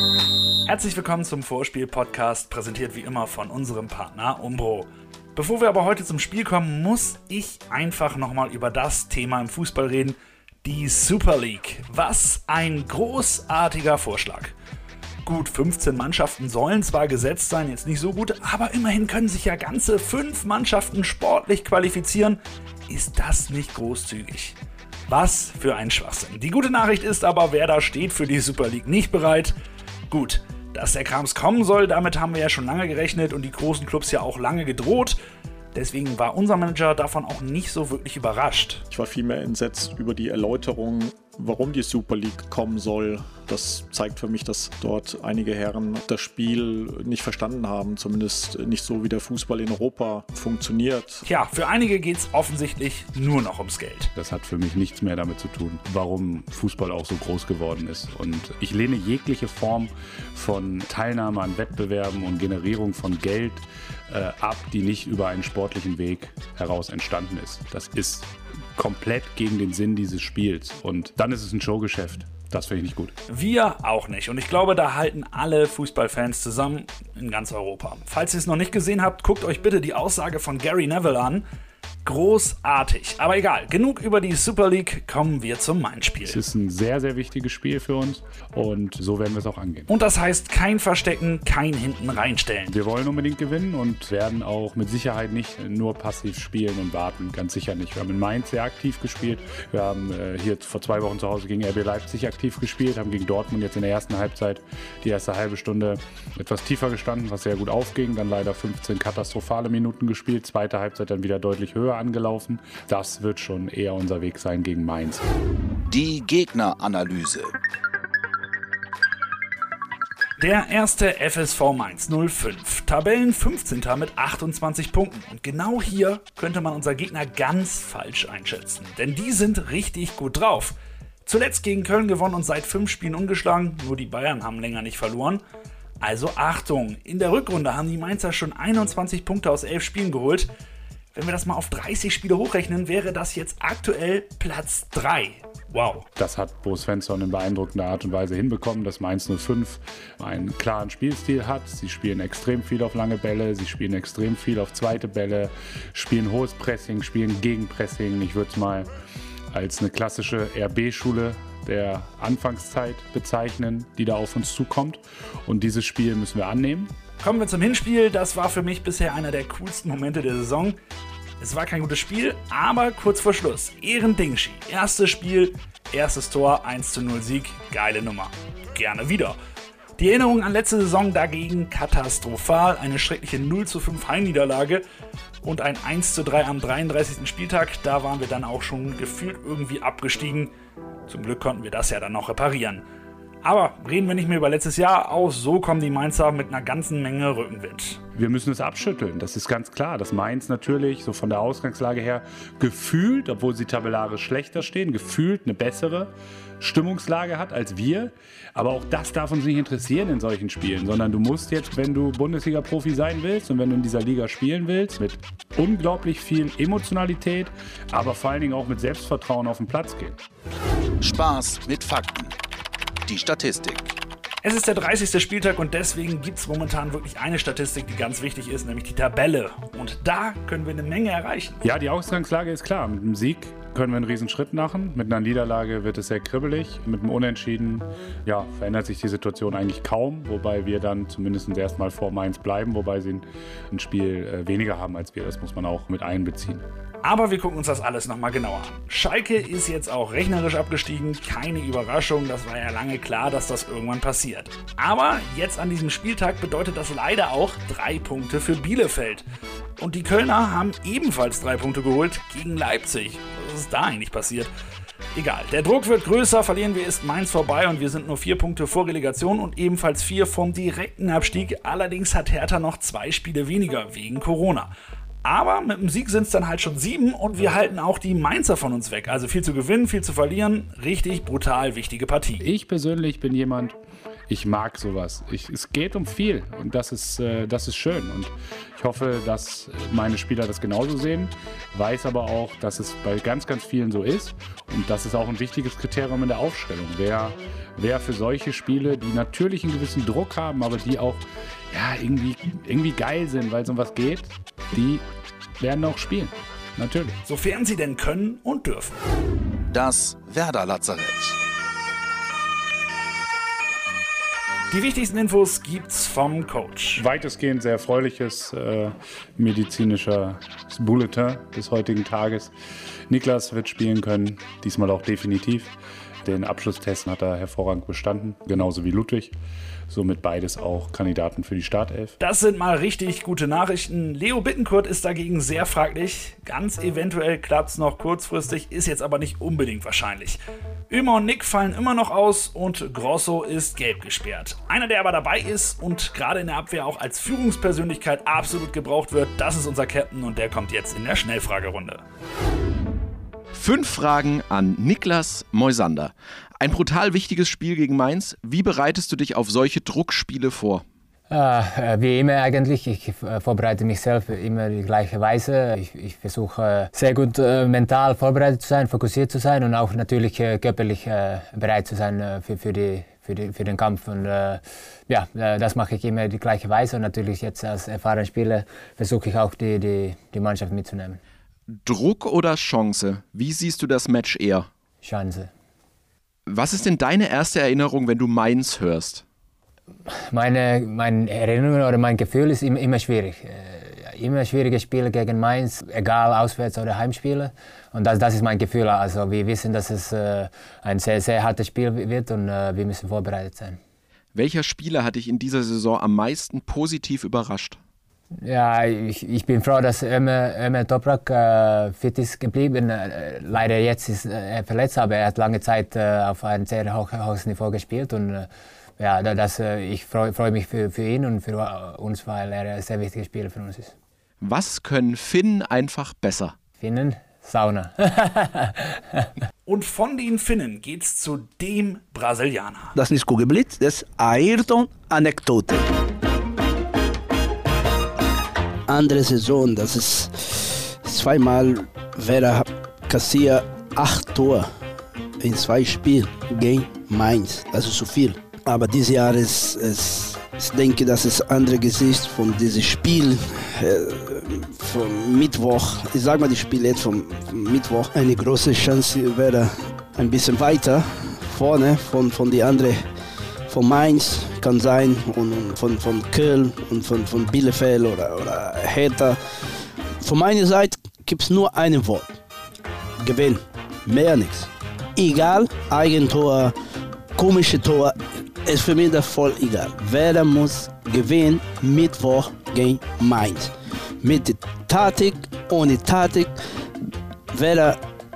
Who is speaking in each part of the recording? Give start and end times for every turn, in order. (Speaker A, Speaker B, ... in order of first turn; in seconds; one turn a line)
Speaker A: 0.7-14.5
Speaker A: 15.3-24.6
Speaker A: 25.1-29.6
Speaker A: 30.1-35.2
Speaker A: 35.8-38.8
Speaker B: 38.9-51.2
Speaker A: 51.2-54.1
Speaker C: 54.2-73.1
Speaker A: 73.3-81.4
Speaker A: 82.0-86.4
Speaker C: 86.3-89.9
Speaker A: 89.9-92.7
Speaker C: 92.7-115.3
Speaker D: 115.9-117.5
Speaker A: 120.4-135.4
Speaker A: 136.0-140.5
Speaker A: 141.1-146.1
Speaker C: 146.2-158.9
Speaker C: 159.5-166.9
Speaker A: 167.2-170.8
Speaker A: 171.4-179.4
Speaker A: 180.0-184.8
Speaker A: 185.4-190.5
Speaker A: 191.1-192.8
Speaker A: 193.4-198.0
Speaker C: 198.2-220.2
Speaker D: 221.0-222.3
Speaker D: 223.1-223.9
Speaker A: 224.4-231.6
Speaker C: 231.6-246.7
Speaker A: 247.0-259.2
Speaker A: 259.8-264.5
Speaker A: 265.1-274.7
Speaker A: 275.2-282.4
Speaker C: 282.4-283.8
Speaker C: 284.3-305.0
Speaker C: 305.6-307.2
Speaker A: 307.3-309.0
Speaker D: 309.7-311.4
Speaker A: 314.7-317.0
Speaker C: 317.0-322.5
Speaker C: 323.1-325.7
Speaker C: 326.2-329.4
Speaker C: 329.9-332.1
Speaker A: 332.2-352.0
Speaker E: 353.5-360.8
Speaker F: 361.3-381.2
Speaker E: 381.8-384.7
Speaker F: 385.0-385.5
Speaker E: 386.5-389.2
Speaker F: 390.2-403.8
Speaker E: 404.3-407.8
Speaker F: 408.4-423.9
Speaker E: 424.4-426.5
Speaker F: 426.8-429.0
Speaker A: 429.7-432.9
Speaker G: 433.0-435.8
Speaker G: 438.9-444.7
Speaker G: 445.4-463.0
Speaker G: 463.7-469.4
Speaker G: 470.2-472.4
Speaker G: 473.2-476.7
Speaker G: 477.4-486.5
Speaker G: 487.5-488.0